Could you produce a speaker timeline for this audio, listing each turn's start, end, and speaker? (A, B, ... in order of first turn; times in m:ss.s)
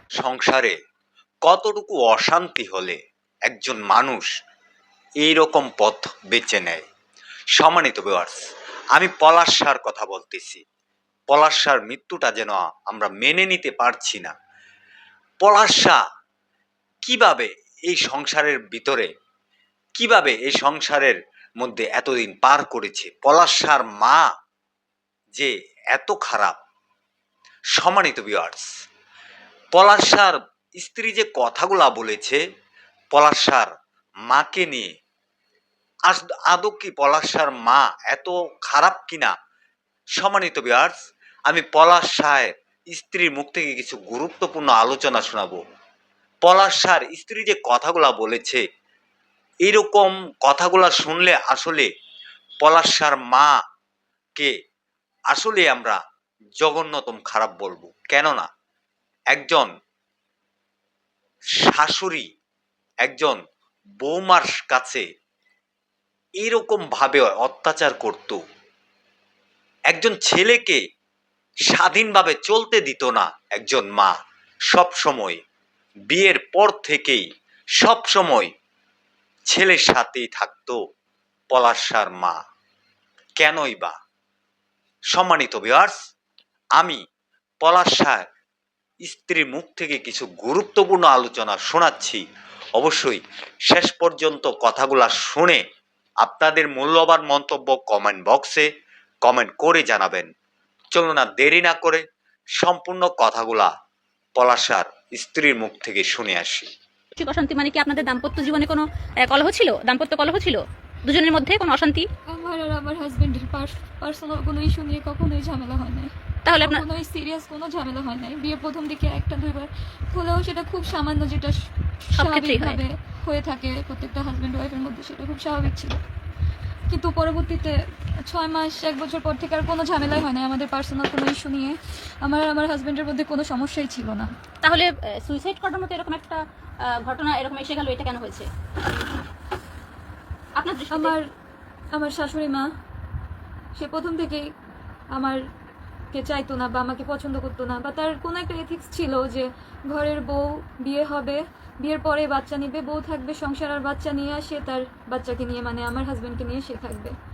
0:00.2-0:00.8 A
0:01.5-0:04.3 A
0:05.2-0:06.8 A
0:07.6-0:10.6 A
0:11.3-0:14.3 A
0:15.4-0:16.0 A
0:17.0-0:19.1 A
0:20.0-0:24.3 A
0:25.4-0:26.6 A
0:27.8-0:28.7 A
0:29.7-0:32.4 A
0:33.1-0:33.7 A
0:34.3-0:34.9 A
0:36.1-0:39.3 A
0:40.2-0:45.6 A
0:46.4-0:48.6 A
0:49.7-0:51.9 A
0:52.6-0:53.6 A
0:55.3-0:56.0 A
0:56.6-0:58.5 A
0:59.3-0:59.7 A
1:01.6-1:02.3 A
1:03.0-1:03.4 A
1:04.0-1:05.1 A
1:06.4-1:08.4 A
1:09.9-1:10.8 A
1:11.7-1:14.2 A
1:14.7-1:15.4 A
1:16.1-1:17.3 A
1:17.8-1:18.5 A
1:19.5-1:20.8 A
1:21.5-1:22.4 A
1:23.4-1:24.0 A
1:25.1-1:26.0 A
1:27.6-1:28.2 A
1:29.1-1:32.2 A
1:32.8-1:35.6 A
1:36.2-1:38.7 A
1:39.2-1:40.3 A
1:40.9-1:42.0 A
1:42.6-1:43.7 A
1:44.4-1:46.7 A
1:47.2-1:52.1 B
1:52.3-2:01.6 C
1:56.5-1:56.8 B
2:02.1-2:06.0 C
2:02.2-2:02.8 B
2:06.9-2:14.3 C
2:14.6-2:18.5 B
2:20.6-2:21.2 B
2:20.9-2:21.3 C
2:21.9-2:22.7 C
2:23.8-2:24.5 C
2:25.1-2:25.4 C
2:26.1-2:37.1 C